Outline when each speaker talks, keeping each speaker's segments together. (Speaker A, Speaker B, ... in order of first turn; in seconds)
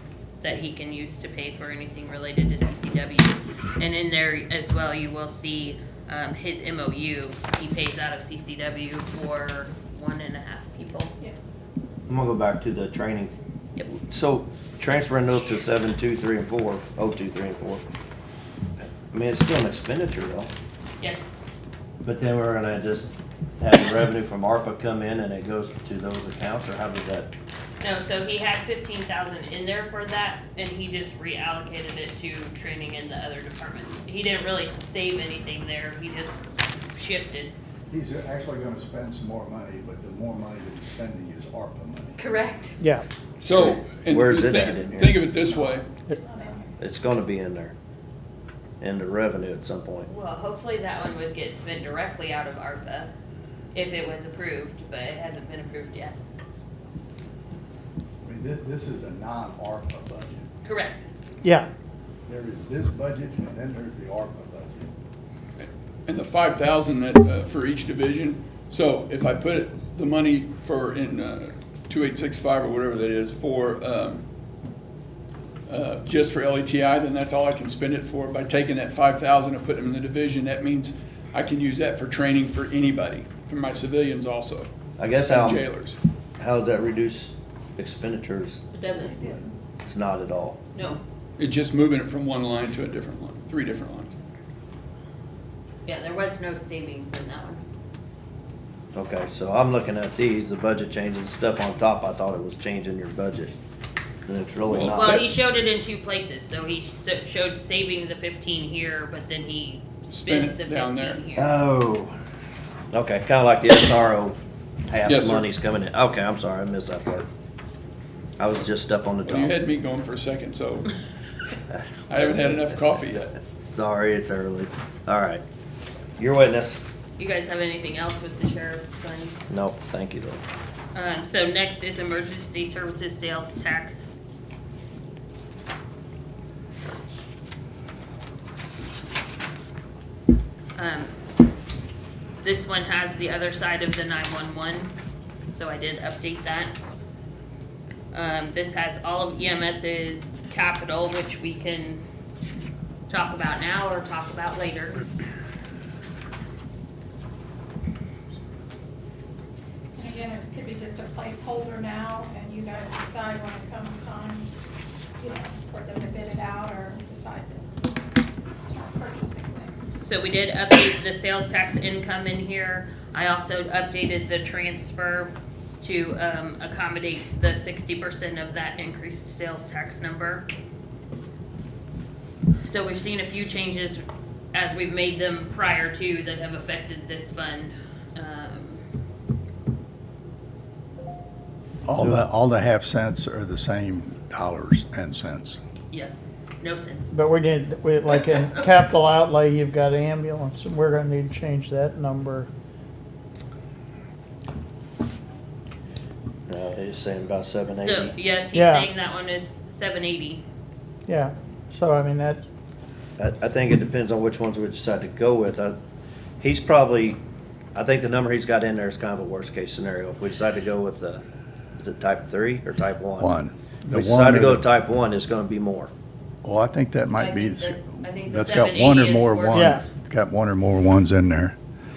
Speaker A: 0.4-11.1, 21.0-21.3, 27.8-36.4, 36.9-37.5, 42.2-42.8, 50.1-53.1, 53.7-56.1, 60.6-61.0, 88.7-89.4, 90.7-91.0, 95.8-97.6, 104.8-111.6, 127.2-129.4, 130.9-134.0, 140.8-141.1, 142.4-144.9, 145.5-146.7, 148.1-152.0, 153.1-155.0, 170.0-180.5, 182.6-188.8, 195.9-197.1, 207.7-210.4, 227.2-229.8
Speaker B: 11.2-11.5, 46.2-46.7, 159.9-164.5, 165.2-167.6, 168.6-169.9
Speaker C: 12.1-13.4, 13.9-17.8, 18.9-20.5, 22.0-27.3, 43.5-45.2, 46.8-47.7, 48.8-50.1, 85.0-85.7, 86.4-88.6, 89.8-90.6, 98.9-103.5, 104.2-105.2, 111.3-112.1, 112.9-117.3, 118.4-119.5, 121.7-123.1, 123.6-125.4, 126.2-126.8, 129.5-130.4, 206.5-208.1, 213.2-215.8, 216.4-217.2, 217.7-221.2, 221.8-223.3, 223.9-225.9
Speaker D: 37.9-42.1, 58.2-60.4, 62.3-64.9, 191.8-195.6, 223.2-224.7, 226.4-231.6
Speaker E: 42.8-43.0, 197.1-202.5, 208.5-208.9, 211.1-212.4, 229.5-229.8
Speaker F: 43.4-45.9, 65.6-74.2, 75.7-86.0, 91.4-94.2, 104.6-105.2, 110.1-111.2, 115.0-115.5, 119.2-120.9, 122.1-123.3